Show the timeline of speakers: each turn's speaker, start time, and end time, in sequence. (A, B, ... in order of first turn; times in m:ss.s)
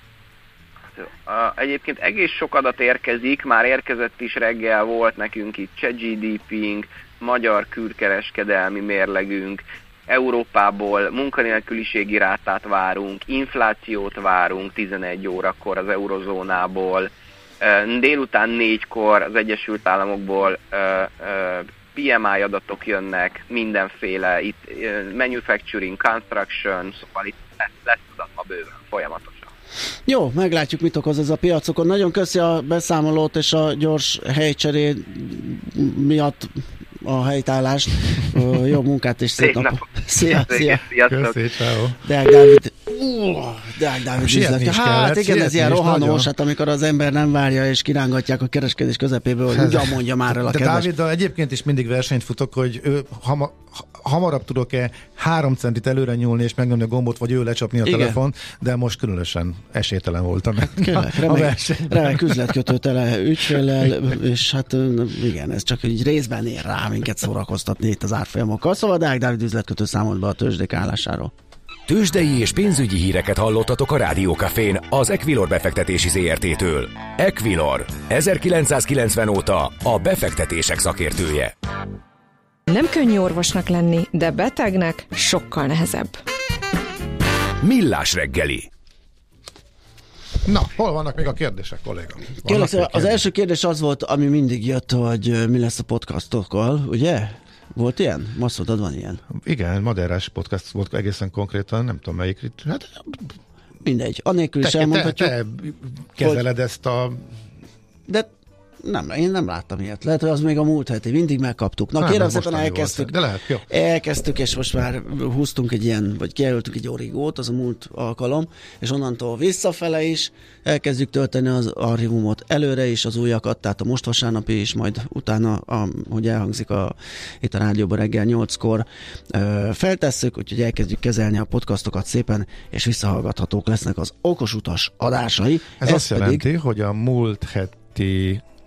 0:01.0-0:17.1 A
0:17.6-0:29.5 A
0:30.1-0:40.8 B
0:39.4-0:41.4 A
0:41.1-0:42.0 C
0:42.0-0:50.9 B
0:44.2-0:46.3 C
0:49.5-1:02.7 C
0:57.8-0:58.2 B
1:00.6-1:11.3 B
1:03.5-1:03.9 C
1:11.9-1:21.5 D
1:22.7-1:26.2 E
1:27.6-1:28.7 D
1:30.4-1:33.2 C
1:32.4-1:39.2 B
1:39.3-1:43.3 C
1:43.8-1:45.3 B
1:44.6-1:47.3 C
1:48.8-1:53.1 B
1:52.0-1:53.6 C
1:53.7-2:16.4 B
2:15.8-2:18.4 C